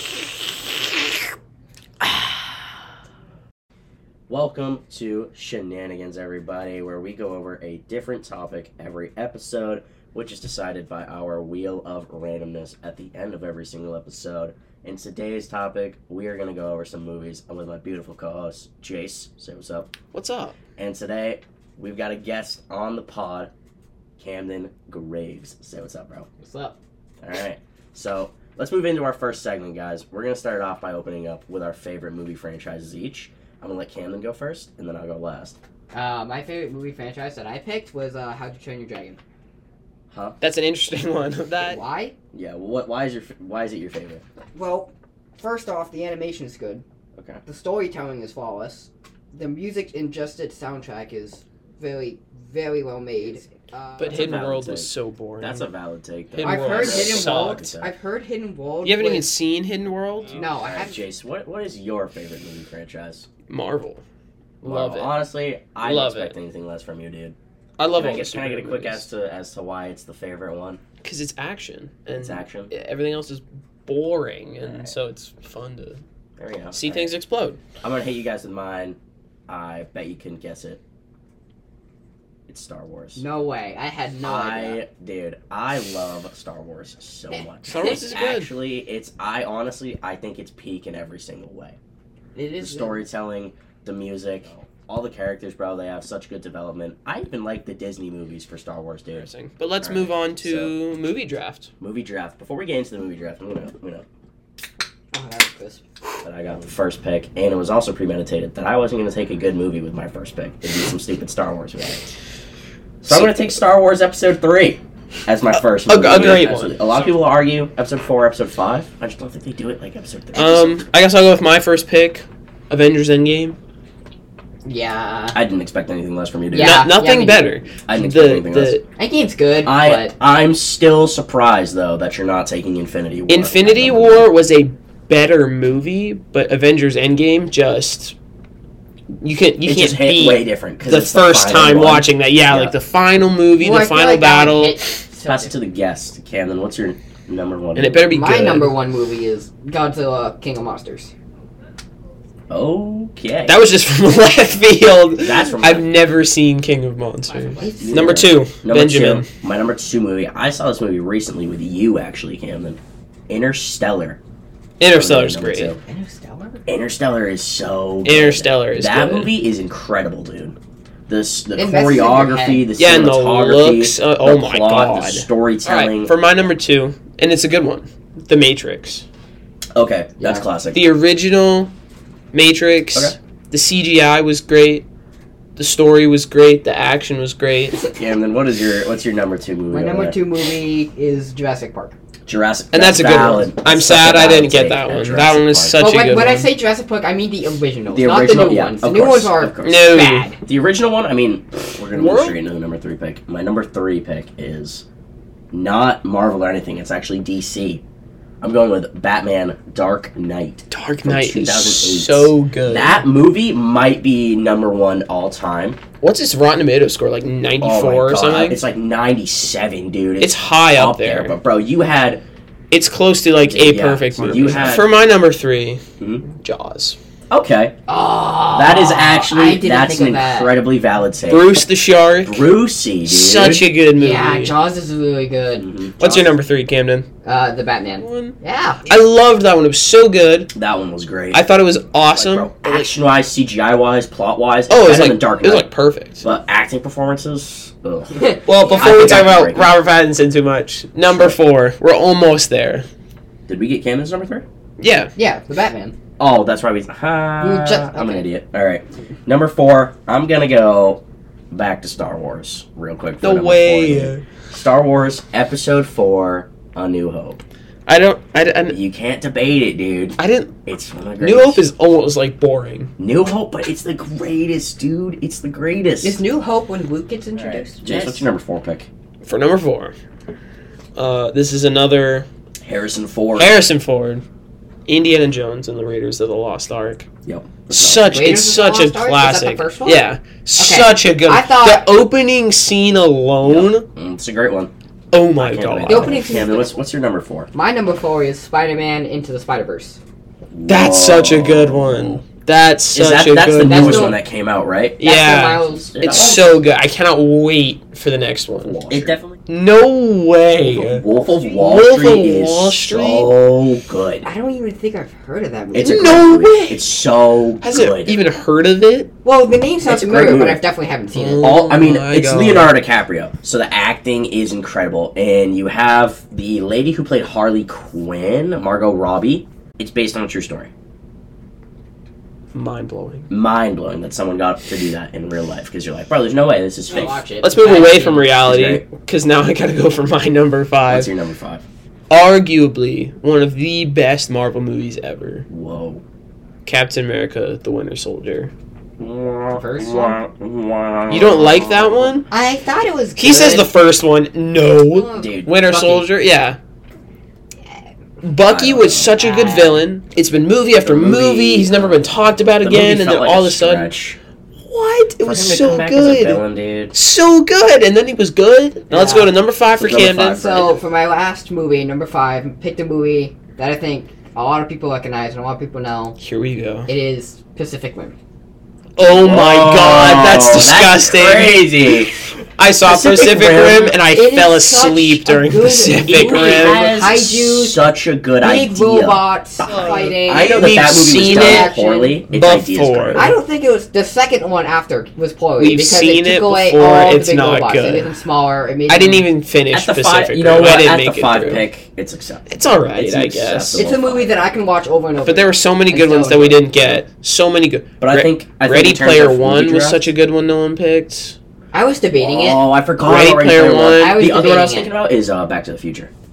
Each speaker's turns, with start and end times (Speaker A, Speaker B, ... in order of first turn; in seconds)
Speaker A: 4.3-19.9, 20.8-23.5, 24.2-26.3, 27.2-35.5, 40.1-40.4, 42.3-44.2, 47.1-47.4, 54.0-57.9, 60.3-63.3, 64.6-67.3, 67.9-70.8, 72.1-72.7, 74.6-74.9, 76.4-77.1, 77.8-80.8, 82.5-83.2, 84.2-91.8, 92.6-99.3, 99.8-100.8, 101.8-104.0, 106.2-112.1, 113.0-120.8, 125.3-126.9, 127.8-128.8, 129.6-134.3, 139.6-142.7, 145.2-148.1, 152.5-153.6, 155.2-155.9, 157.8-164.2, 164.9-165.8, 166.7-170.6, 171.1-176.1, 179.7-180.8, 187.9-190.2, 192.3-195.8, 197.9-199.8, 200.4-204.8, 205.5-207.8, 208.4-215.8, 217.6-222.2, 223.4-224.9, 227.3-227.7, 228.5-231.6, 232.2-233.7, 235.6-236.3, 240.5-241.4, 242.1-245.7, 246.2-248.2, 248.7-249.7, 251.1-251.4, 253.5-254.4, 256.2-267.4, 268.7-271.6, 273.0-276.2, 277.3-278.9, 282.6-283.6, 287.2-288.3, 293.4-294.7, 295.4-297.5, 300.5-302.2, 302.9-305.0, 305.7-306.6, 308.7-309.4, 310.6-314.3, 315.7-318.2, 319.9-320.6, 321.4-330.7, 333.3-337.2, 338.4-338.8, 340.9-341.6, 345.5-346.0, 349.0-352.2, 355.1-355.5, 358.4-359.2, 360.8-364.2, 365.2-366.9, 369.8-370.8, 379.1-382.1, 382.8-383.9, 386.0-393.3, 399.7-404.3, 408.0-410.0, 412.2-416.1
Speaker B: 20.1-20.6, 40.4-41.8, 54.0-55.7, 56.3-57.7, 58.8-60.4, 63.5-64.0, 64.6-65.3, 65.8-66.4, 67.8-69.0, 71.0-76.0, 76.7-77.6, 87.7-88.5, 99.2-101.7, 115.8-117.1, 120.3-123.6, 126.6-128.8, 133.3-138.1, 139.2-144.8, 147.7-148.7, 153.5-159.3, 164.8-165.7, 168.0-169.3, 172.8-179.0, 180.7-181.7, 182.3-184.8, 185.6-187.9, 192.7-196.5, 199.6-200.3, 201.9-202.4, 210.7-213.0, 216.0-218.6, 220.2-221.4, 222.7-226.9, 231.3-232.5, 233.1-234.5, 236.0-237.1, 238.0-240.5, 241.3-242.9, 244.7-246.3, 248.4-252.8, 254.8-255.1, 263.2-264.2, 267.9-268.8, 270.2-270.6, 271.2-272.9, 279.2-279.9, 280.9-282.3, 283.3-284.2, 284.9-287.1, 287.7-293.8, 295.1-296.2, 300.7-304.2, 305.0-311.0, 311.5-313.3, 315.8-316.9, 317.6-319.1, 321.1-322.8, 332.5-333.3, 337.4-341.1, 342.1-345.4, 346.6-348.5, 351.1-352.2, 353.2-356.6, 358.2-363.9, 364.7-366.4, 366.9-370.4, 376.2-376.9, 379.0-386.9, 389.6-391.7, 392.3-393.3, 395.6-398.1, 398.9-401.6, 402.5-403.9, 405.2-411.4, 413.0-414.2
Speaker C: 26.4-26.8, 35.9-39.2, 41.6-42.1, 44.5-46.8, 47.4-54.3, 56.4-59.3, 60.3-61.1, 83.2-84.8, 92.3-93.0, 105.1-105.8, 124.6-125.4, 126.5-127.5, 129.0-130.1, 143.6-145.5, 148.1-151.1, 157.3-158.2, 165.8-166.6, 171.6-172.7, 189.7-191.9, 195.8-200.4, 227.9-230.6, 233.9-235.7, 237.2-238.8, 248.1-249.3, 255.2-255.9, 257.4-258.3, 276.0-278.3, 288.1-291.9, 295.9-296.7, 297.5-300.0, 303.6-304.2, 305.0-306.5, 314.2-316.2, 319.2-321.6, 336.9-338.3, 349.5-350.2, 352.3-353.7, 354.9-356.1, 359.1-359.8, 368.9-369.3, 370.3-376.2, 376.9-378.1, 383.9-387.9, 388.4-392.2, 393.1-399.3, 403.7-407.0, 411.7-412.6, 413.9-414.9